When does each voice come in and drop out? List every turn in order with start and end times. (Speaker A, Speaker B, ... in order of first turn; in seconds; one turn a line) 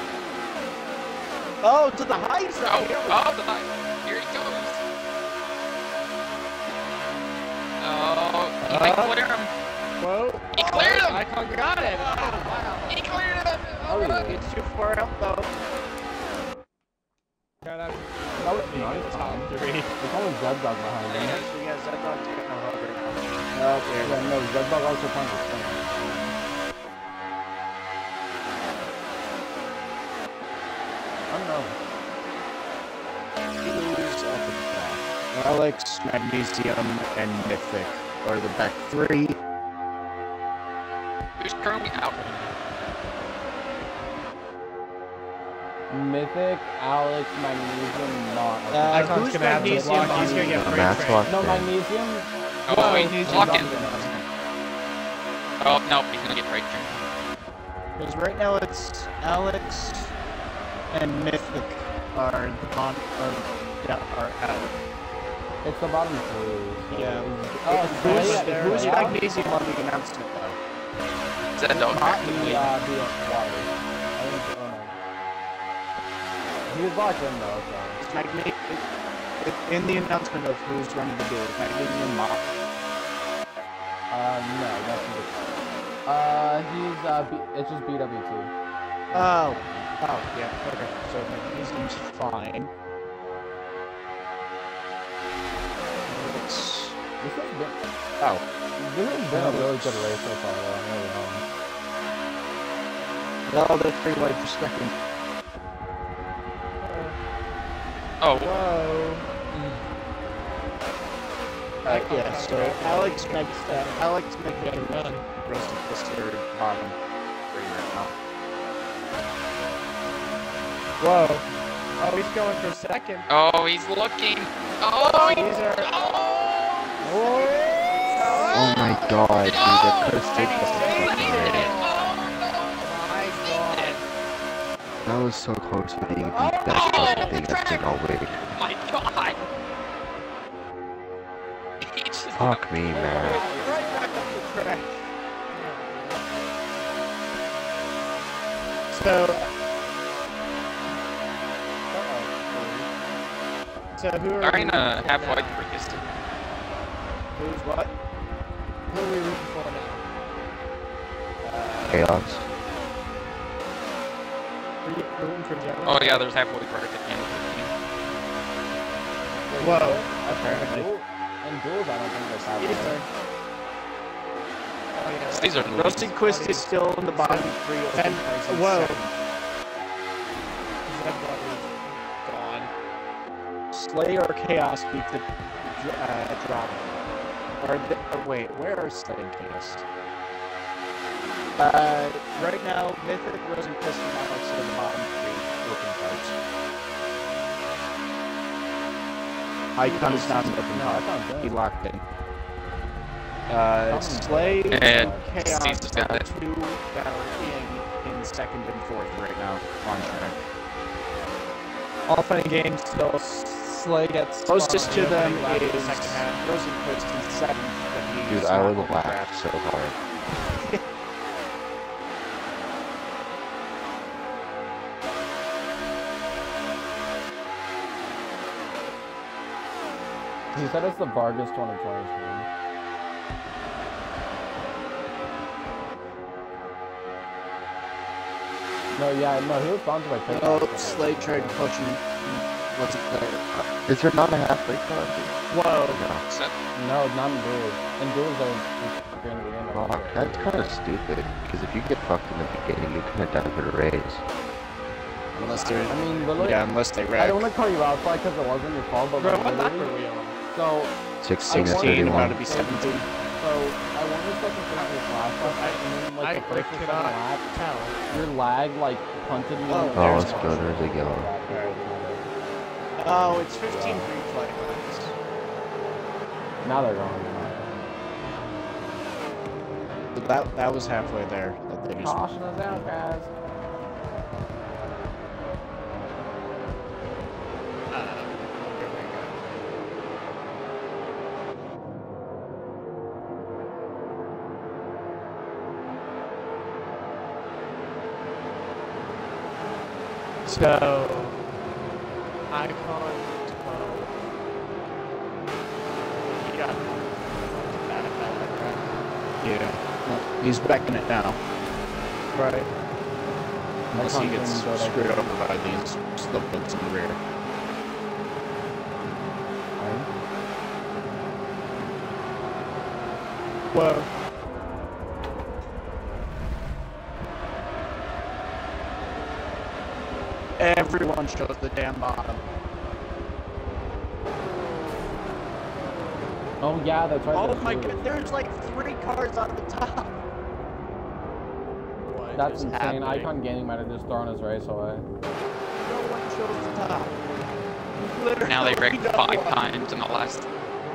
Speaker A: 1.6-3.3
Speaker B: 2.6-4.8
Speaker B: 7.8-9.5
Speaker C: 8.6-9.2
Speaker C: 10.0-12.9
Speaker B: 10.5-11.3
Speaker A: 10.6-11.2
Speaker A: 11.8-13.0
Speaker B: 12.9-14.3
Speaker D: 13.8-14.5
Speaker A: 14.2-15.6
Speaker C: 17.6-19.9
Speaker D: 18.4-21.4
Speaker B: 21.1-21.6
Speaker A: 21.2-24.4
Speaker D: 24.0-26.3
Speaker D: 31.3-31.8
Speaker A: 33.6-39.4
Speaker B: 41.4-42.5
Speaker D: 45.9-50.6
Speaker A: 48.7-51.3
Speaker C: 48.9-51.3
Speaker E: 50.5-51.7
Speaker D: 51.3-54.2
Speaker B: 52.7-53.8
Speaker A: 52.7-54.3
Speaker B: 55.6-57.0
Speaker A: 58.0-60.1
Speaker A: 60.9-64.7
Speaker D: 65.6-69.2
Speaker A: 66.9-70.6
Speaker C: 67.9-70.0
Speaker B: 71.5-72.7
Speaker A: 71.8-72.2
Speaker D: 71.9-75.0
Speaker D: 76.7-78.0
Speaker A: 78.0-78.9
Speaker A: 79.4-82.4
Speaker D: 84.1-85.3
Speaker D: 86.1-88.5
Speaker A: 89.1-92.7
Speaker A: 96.1-97.0
Speaker D: 97.2-97.8
Speaker D: 98.8-101.4
Speaker A: 99.3-100.1
Speaker A: 103.5-104.9
Speaker C: 106.8-107.2
Speaker B: 108.2-108.7
Speaker C: 108.4-109.8
Speaker A: 111.8-117.0
Speaker C: 111.8-115.3
Speaker A: 117.5-118.1
Speaker C: 121.0-121.5
Speaker C: 122.0-123.3
Speaker B: 123.3-127.5
Speaker C: 125.1-125.9
Speaker A: 127.0-129.3
Speaker C: 127.1-127.6
Speaker B: 128.1-128.8
Speaker C: 128.2-129.0
Speaker E: 128.5-131.7
Speaker B: 129.4-134.0
Speaker C: 130.2-131.9
Speaker A: 130.4-132.0
Speaker C: 132.8-134.0
Speaker E: 135.0-138.6
Speaker A: 136.0-137.1
Speaker B: 136.7-139.4
Speaker B: 141.8-143.8
Speaker E: 142.3-143.4
Speaker A: 143.0-145.1
Speaker C: 143.2-144.2
Speaker D: 143.2-143.7
Speaker C: 145.5-146.3
Speaker A: 148.9-149.4
Speaker C: 148.9-149.4
Speaker A: 152.5-152.8
Speaker C: 153.9-155.6
Speaker B: 154.4-156.0
Speaker A: 157.3-157.9
Speaker C: 158.9-160.0
Speaker A: 161.4-162.2
Speaker E: 161.8-162.4
Speaker C: 164.8-166.3
Speaker B: 165.8-167.7
Speaker D: 169.5-173.0
Speaker C: 169.6-170.9
Speaker A: 172.6-173.0
Speaker C: 174.9-179.0
Speaker B: 175.3-176.1
Speaker A: 175.7-179.1
Speaker C: 180.9-182.7
Speaker A: 183.7-186.9
Speaker A: 187.6-189.8
Speaker A: 191.6-196.4
Speaker A: 199.8-202.0
Speaker C: 199.8-200.5
Speaker D: 200.4-201.7
Speaker A: 203.5-210.4
Speaker D: 203.9-205.3
Speaker B: 204.7-206.3
Speaker C: 212.1-216.4
Speaker A: 214.5-219.3
Speaker E: 218.3-220.0
Speaker A: 220.4-220.8
Speaker D: 230.6-232.5
Speaker D: 238.9-241.7
Speaker A: 240.3-243.4
Speaker E: 243.5-245.3
Speaker C: 245.5-246.0
Speaker E: 245.9-246.2
Speaker B: 246.3-246.6
Speaker D: 246.8-250.8
Speaker E: 249.7-254.2
Speaker A: 255.3-257.5
Speaker C: 255.4-256.3
Speaker D: 255.9-256.6
Speaker D: 257.2-260.0
Speaker C: 259.2-260.4
Speaker D: 260.5-260.9
Speaker E: 261.2-262.4
Speaker A: 261.4-263.1
Speaker D: 261.5-267.4
Speaker C: 265.4-268.0
Speaker D: 268.1-272.3
Speaker A: 269.7-270.8
Speaker E: 269.9-271.3
Speaker A: 271.5-271.8
Speaker A: 273.0-275.1
Speaker D: 273.7-274.1
Speaker D: 276.6-277.7
Speaker A: 280.1-282.2
Speaker D: 282.0-283.3
Speaker C: 287.9-289.3
Speaker C: 300.4-301.4
Speaker C: 302.5-304.1
Speaker C: 306.3-308.9
Speaker A: 309.4-311.4
Speaker C: 312.3-312.7
Speaker A: 313.9-317.2
Speaker D: 313.9-315.4
Speaker D: 319.8-320.1
Speaker A: 323.7-324.1
Speaker A: 330.6-332.4
Speaker D: 336.6-338.1
Speaker A: 337.3-340.1
Speaker C: 342.1-343.3
Speaker D: 342.4-345.1
Speaker A: 345.8-347.2
Speaker A: 348.1-349.9
Speaker B: 348.4-350.5